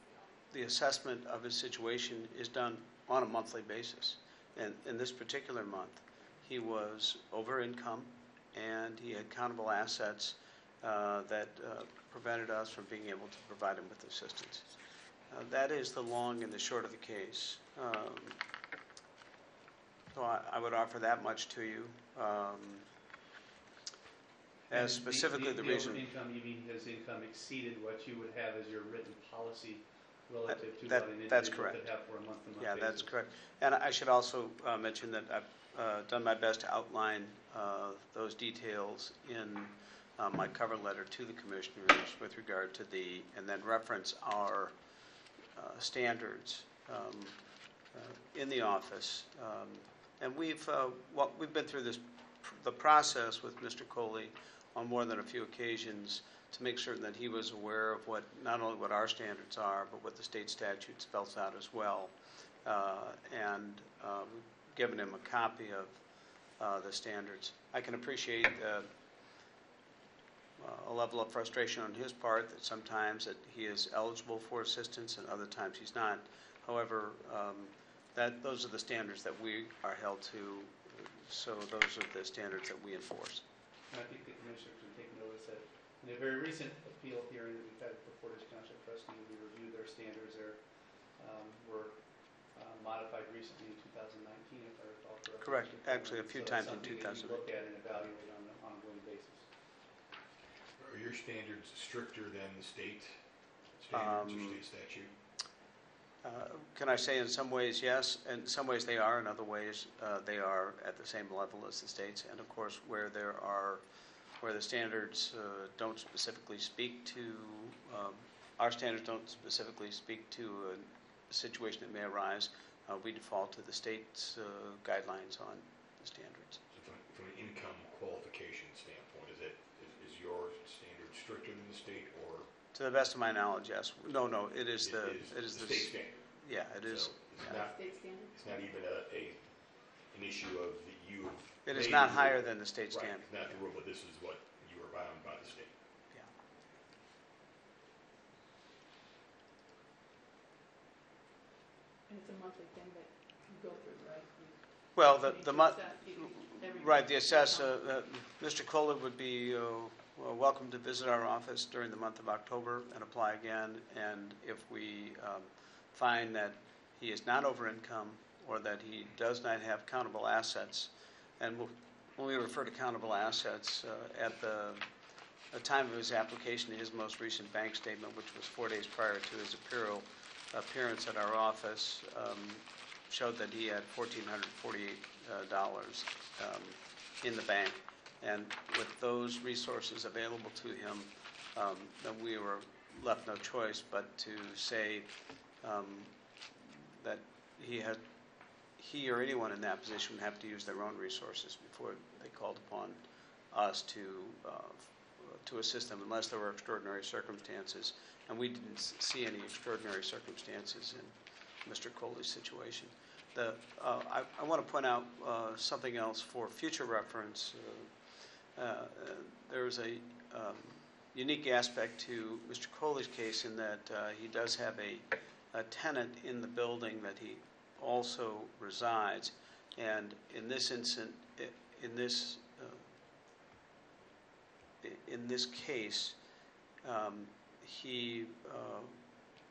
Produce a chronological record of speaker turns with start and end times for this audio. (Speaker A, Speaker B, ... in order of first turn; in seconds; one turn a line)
Speaker A: 0.5-14.7
Speaker A: 15.3-18.4
Speaker A: 20.1-22.9
Speaker A: 24.7-26.1
Speaker B: 24.7-33.1
Speaker A: 30.5-31.8
Speaker A: 32.6-44.8
Speaker A: 45.5-47.4
Speaker A: 47.9-66.0
Speaker A: 66.6-68.9
Speaker A: 70.6-83.5
Speaker B: 83.9-99.5
Speaker A: 95.4-97.5
Speaker C: 100.8-103.2
Speaker C: 103.7-105.1
Speaker A: 103.9-104.6
Speaker A: 106.2-113.8
Speaker A: 114.4-126.6
Speaker C: 126.7-132.5
Speaker A: 132.7-137.1
Speaker C: 134.8-136.2
Speaker C: 136.8-139.4
Speaker D: 137.4-138.7
Speaker C: 140.1-145.7
Speaker A: 141.7-143.6
Speaker D: 152.1-157.8
Speaker A: 154.9-174.8
Speaker A: 175.5-195.1
Speaker A: 195.6-198.0
Speaker A: 198.8-217.9
Speaker A: 218.6-232.9
Speaker A: 234.8-236.2
Speaker A: 236.8-239.0